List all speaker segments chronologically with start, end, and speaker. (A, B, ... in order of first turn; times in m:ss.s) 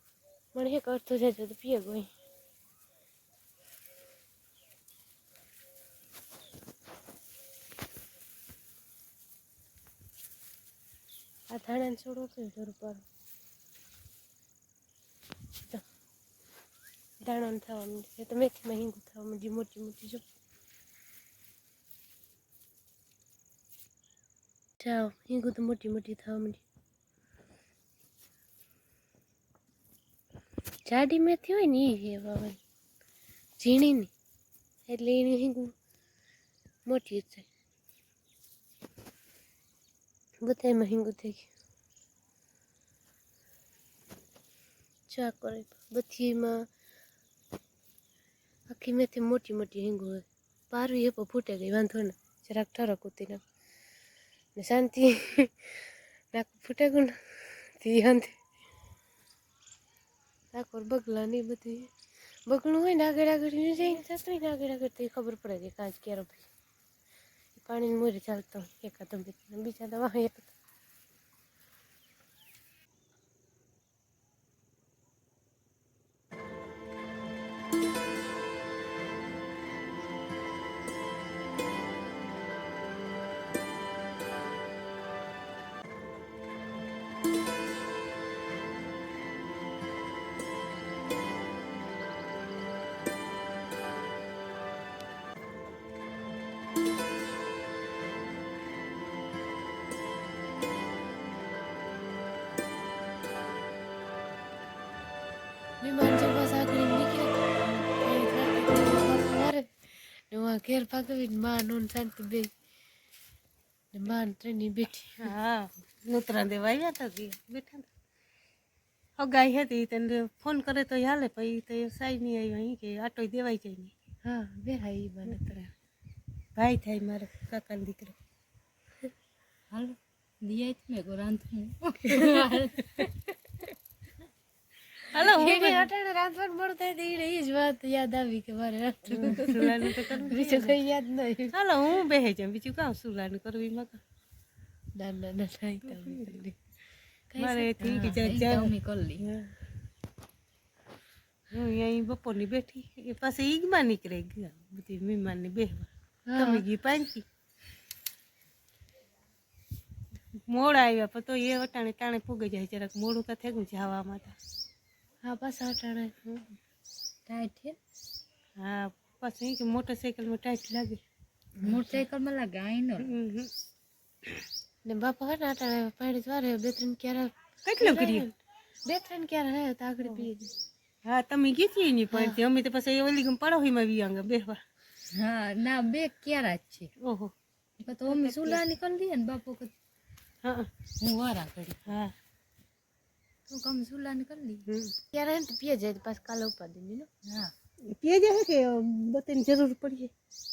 0:00.5-0:02.1 A
0:11.5-0:13.0 A
0:17.2-0:20.2 A
0:24.8-0:26.6 A
0:30.9-0:32.6 A
0:33.6-0:34.1 A
0:34.9-0:35.7 A
0:36.9-0:37.5 A
0:40.4-0:41.5 A
0:45.1-0:46.6 A
0:48.7-0:53.4 A
0:54.6-0:58.4 A
1:00.5-1:01.9 A
1:02.5-1:06.5 A
1:07.6-1:10.5 A
1:45.8-1:52.5 A
1:53.9-1:55.3 A
1:55.2-1:57.9 B
1:59.2-2:03.9 B
2:04.2-2:05.6 A
2:05.3-2:05.7 B
2:06.6-2:08.2 B
2:09.7-2:13.1 C
2:15.1-2:15.9 B
2:15.2-2:21.6 A
2:19.2-2:20.8 B
2:21.5-2:24.0 B
2:25.0-2:26.6 A
2:25.8-2:26.4 B
2:27.3-2:28.1 A
2:27.4-2:29.5 B
2:28.1-2:29.2 C
2:31.5-2:37.2 B
2:36.3-2:36.6 A
2:40.5-2:44.4 B
2:45.2-2:46.1 A
2:47.3-2:47.8 C
2:48.6-2:51.0 B
2:51.6-2:52.0 A
2:51.6-2:53.1 C
2:53.1-2:53.5 B
2:54.8-2:58.3 A
2:57.6-2:58.3 B
2:58.9-3:00.5 A
3:00.0-3:00.3 B
3:01.0-3:04.6 B
3:02.1-3:02.4 A
3:05.1-3:06.9 C
3:07.0-3:07.3 B
3:07.8-3:09.7 C
3:08.1-3:08.6 B
3:10.4-3:10.7 B
3:11.0-3:11.9 C
3:11.9-3:12.1 B
3:13.5-3:14.7 C
3:15.1-3:17.1 A
3:17.3-3:17.5 C
3:17.9-3:20.1 B